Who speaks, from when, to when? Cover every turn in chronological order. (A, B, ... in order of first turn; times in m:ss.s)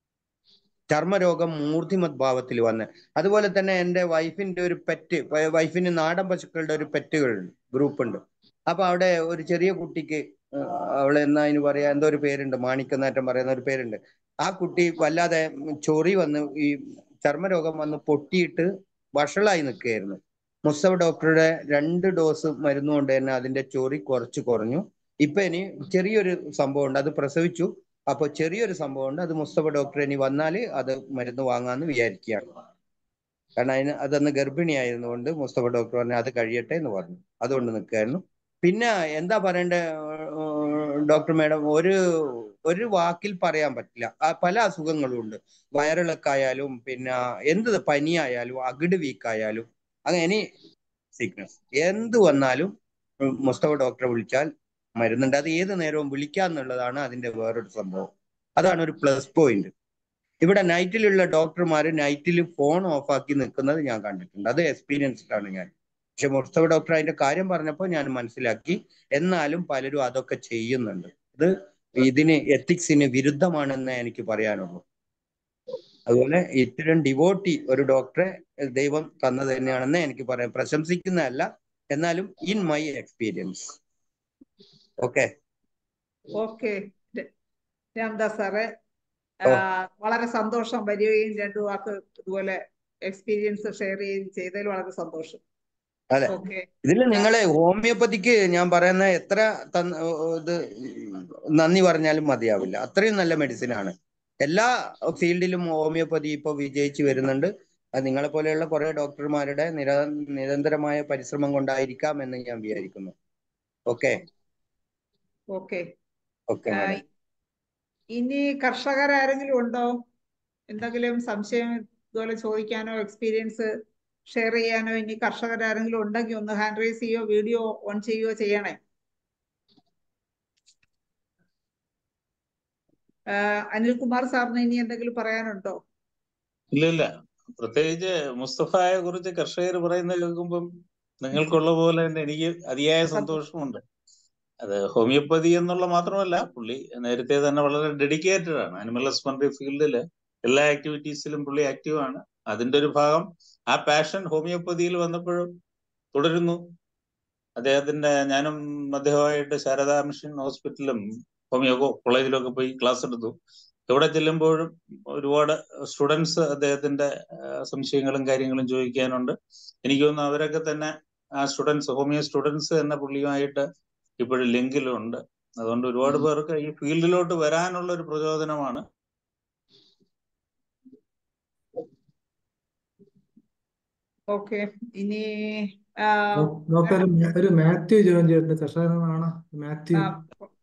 0:00.9-0:32.4 A
0:33.6-0:50.4 A
0:51.2-0:52.7 A
0:53.2-0:59.7 A
1:00.4-1:14.8 A
1:16.1-1:23.8 A
1:25.0-1:25.3 A
1:26.4-1:27.3 B
1:28.0-1:28.7 B
1:29.4-1:35.4 B
1:36.1-1:43.9 A
1:36.3-1:37.3 B
1:44.4-1:53.1 A
1:53.9-1:54.2 A
1:55.5-1:55.8 B
1:56.5-1:57.0 A
1:56.7-1:57.0 B
1:58.1-1:59.9 B
2:00.7-2:03.7 B
2:04.3-2:08.8 B
2:13.3-2:15.8 B
2:16.7-2:20.7 C
2:21.2-2:23.8 C
2:24.6-2:35.5 C
2:36.1-2:36.6 C
2:37.6-2:43.3 C
2:43.9-2:53.6 C
2:54.2-2:58.8 C
3:04.3-3:07.0 B
3:06.4-3:10.1 D
3:10.0-3:10.5 B